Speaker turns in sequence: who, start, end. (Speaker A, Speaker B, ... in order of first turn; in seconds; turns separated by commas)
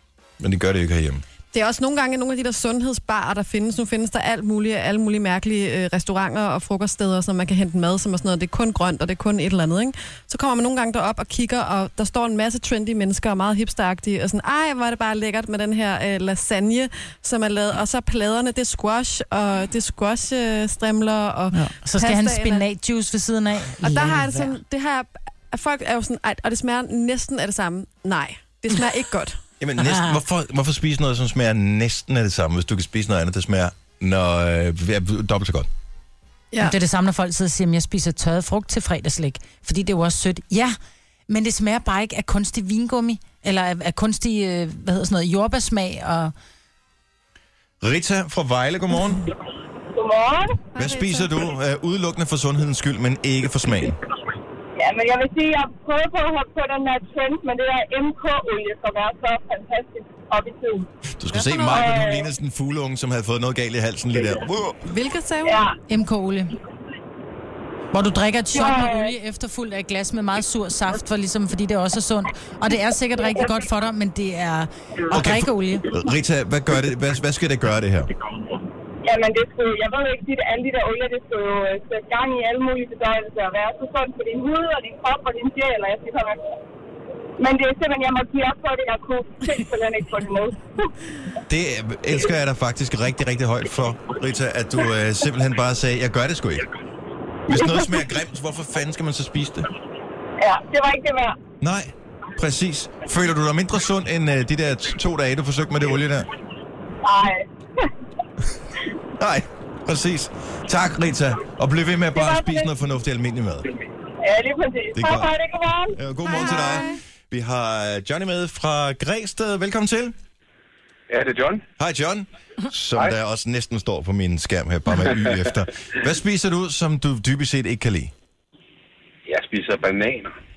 Speaker A: 0.4-1.2, Speaker B: 1.5-22.6, Speaker C: 21.5-24.6, Speaker B: 23.8-29.4, Speaker A: 29.6-35.7, Speaker C: 36.6-40.8, Speaker C: 41.3-46.3, Speaker A: 47.8-49.2, Speaker D: 49.9-50.6, Speaker B: 50.7-51.3, Speaker A: 50.8-54.0, Speaker D: 54.8-60.9, Speaker A: 61.2-64.8, Speaker B: 61.4-61.7, Speaker D: 61.6-62.2, Speaker B: 64.8-65.6, Speaker D: 65.4-65.8, Speaker C: 65.9-66.5, Speaker C: 67.9-75.9, Speaker D: 68.5-69.1, Speaker A: 75.1-78.1, Speaker D: 79.0-86.4, Speaker D: 87.4-90.9, Speaker A: 91.5-96.7, Speaker A: 97.5-99.7, Speaker D: 100.4-101.4, Speaker A: 101.6-106.3, Speaker D: 107.0-107.9, Speaker A: 109.2-113.7, Speaker D: 112.2-112.7, Speaker D: 114.2-116.0, Speaker A: 114.9-115.3, Speaker A: 115.9-120.2, Speaker B: 116.2-117.0, Speaker E: 121.1-121.6, Speaker A: 121.8-128.1, Speaker E: 125.0-125.4, Speaker E: 129.2-130.3